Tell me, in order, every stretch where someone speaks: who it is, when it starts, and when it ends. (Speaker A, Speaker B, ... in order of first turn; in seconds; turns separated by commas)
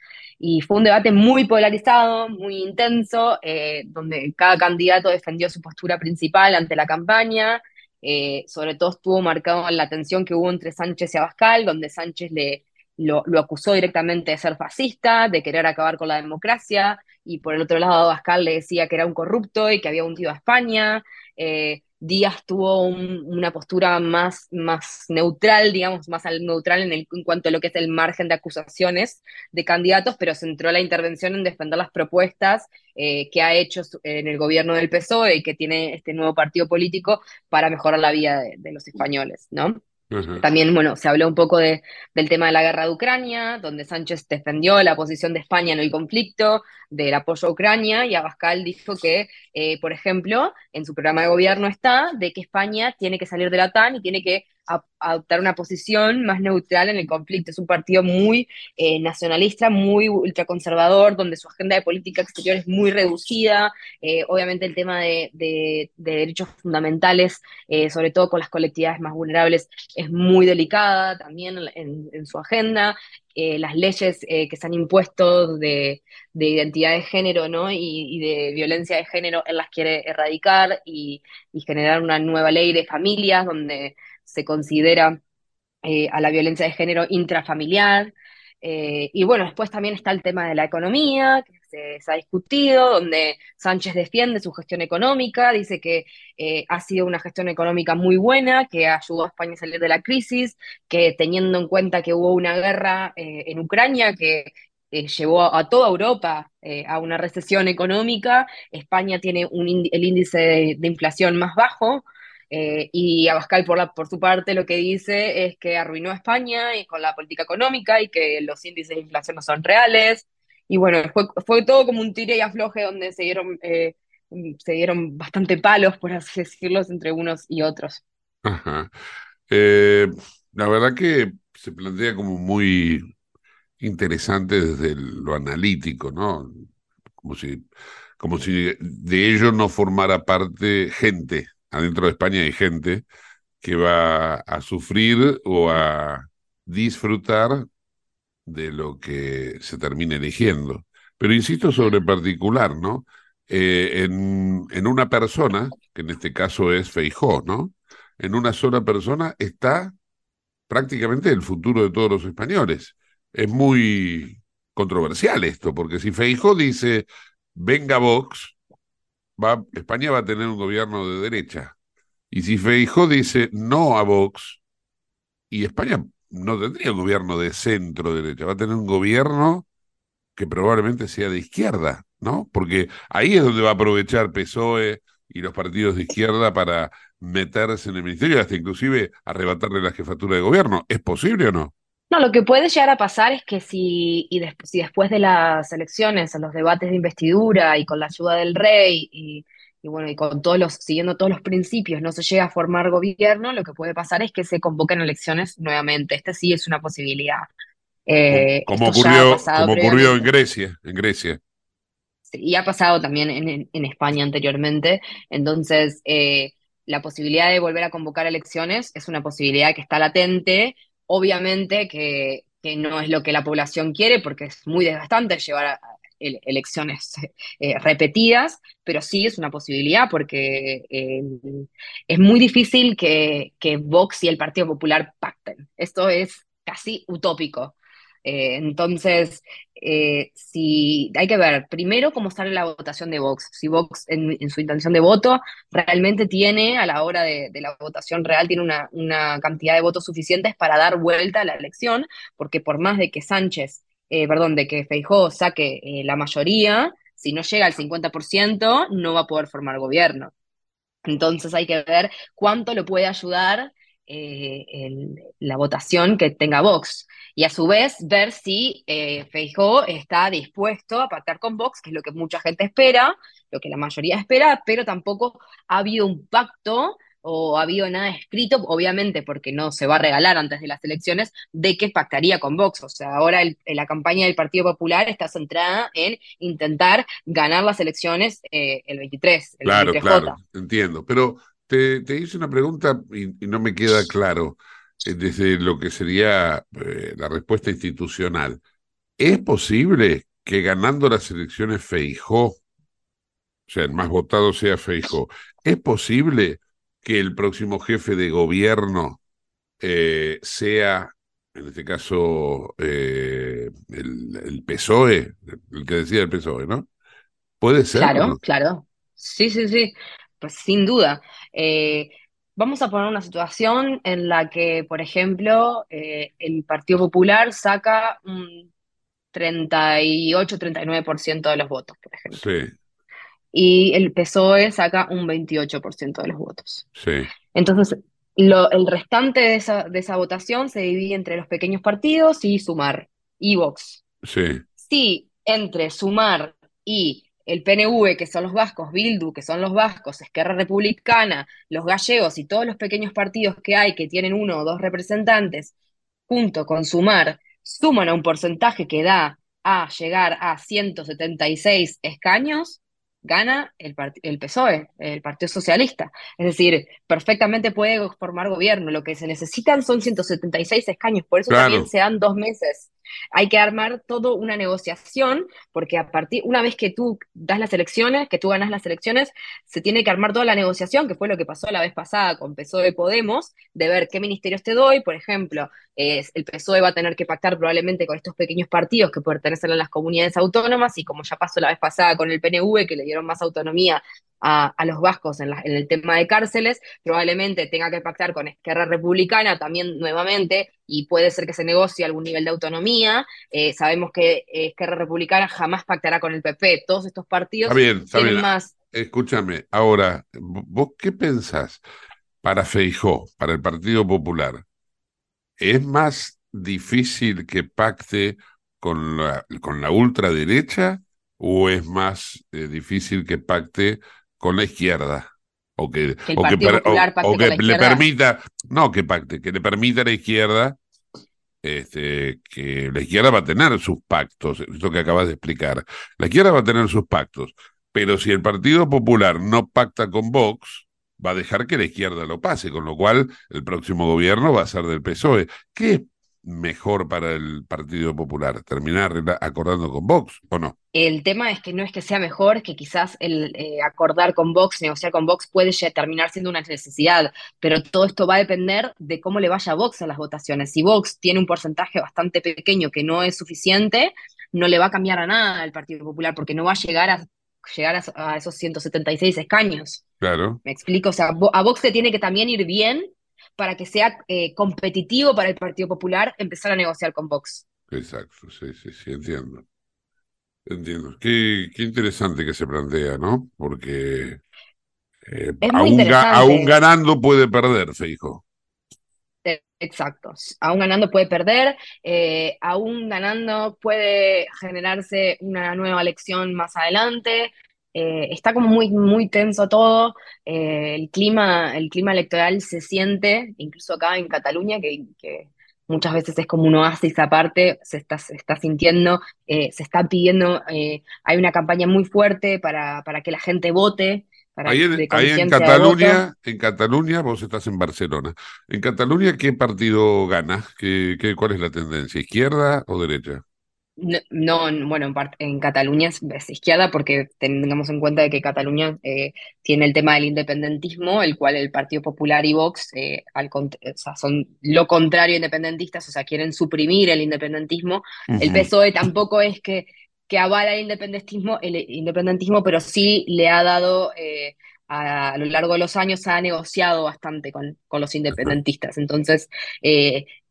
Speaker A: 0.4-39.8, Speaker B: 40.1-40.4, Speaker A: 40.4-85.2, Speaker A: 85.8-128.0, Speaker B: 128.4-128.9, Speaker B: 129.5-133.0, Speaker B: 133.8-136.7, Speaker B: 137.2-137.7, Speaker B: 138.2-143.0, Speaker B: 143.6-147.7, Speaker B: 148.4-159.9, Speaker B: 160.7-168.6, Speaker B: 169.4-171.7, Speaker B: 172.3-174.6, Speaker B: 175.5-179.7, Speaker B: 180.3-191.7, Speaker A: 192.1-207.4, Speaker A: 208.1-210.2, Speaker B: 208.3-211.4, Speaker A: 212.3-260.3, Speaker A: 261.1-290.4, Speaker B: 289.6-298.6, Speaker B: 299.2-302.6, Speaker B: 303.7-309.2, Speaker B: 309.8-316.9, Speaker B: 317.6-318.4, Speaker A: 317.9-328.7, Speaker A: 329.3-332.4, Speaker B: 332.3-332.7, Speaker A: 333.5-336.8, Speaker B: 336.9-337.3, Speaker A: 337.5-344.0, Speaker B: 344.2-344.6, Speaker A: 344.8-355.7, Speaker A: 356.3-408.7, Speaker B: 371.5-371.9, Speaker B: 407.6-411.8, Speaker B: 412.4-414.6, Speaker B: 415.6-430.8, Speaker A: 426.3-428.0, Speaker B: 431.6-450.7, Speaker A: 450.9-470.0, Speaker B: 470.2-470.6, Speaker A: 470.6-477.6, Speaker B: 477.9-479.6, Speaker B: 480.6-484.4, Speaker B: 485.2-488.4, Speaker A: 485.6-486.7, Speaker A: 489.4-516.2, Speaker B: 514.6-523.4, Speaker A: 524.0-550.3, Speaker B: 538.4-538.6